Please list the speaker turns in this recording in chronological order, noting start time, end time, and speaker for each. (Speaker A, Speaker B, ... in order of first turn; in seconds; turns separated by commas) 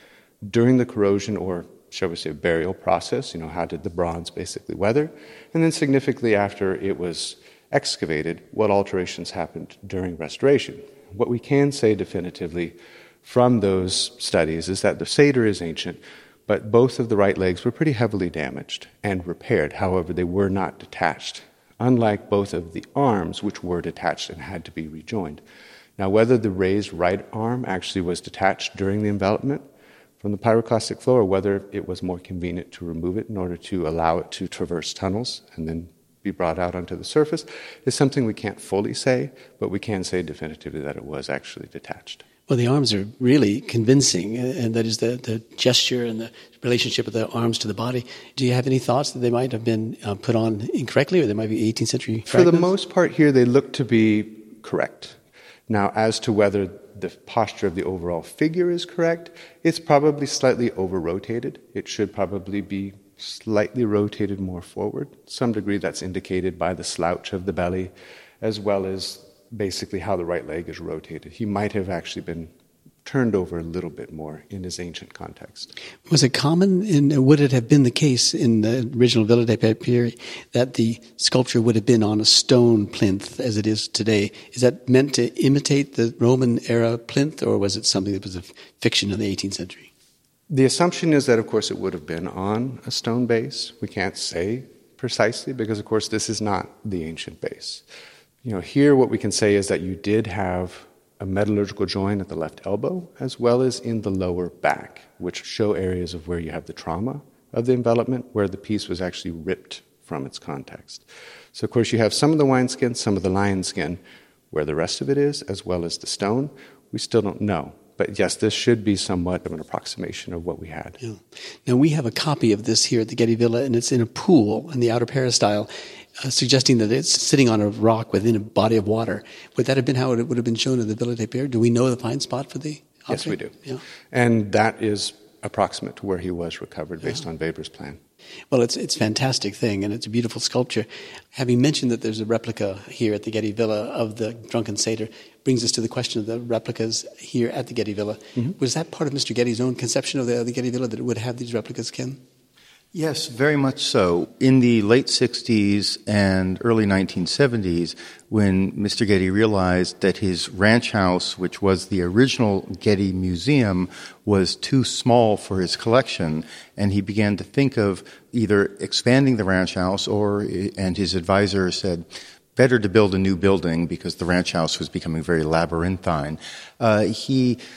Speaker A: 0.4-25.4, Speaker A: 26.0-29.6, Speaker A: 30.2-42.2, Speaker B: 42.5-52.7, Speaker A: 52.3-55.2, Speaker A: 55.7-72.5, Speaker A: 73.0-75.7, Speaker B: 76.1-89.9, Speaker A: 90.5-97.8, Speaker A: 98.4-114.0, Speaker A: 114.5-121.0, Speaker B: 121.0-133.8, Speaker A: 133.1-133.6, Speaker A: 134.1-138.0, Speaker B: 138.5-152.2, Speaker C: 152.9-172.1, Speaker C: 172.6-177.6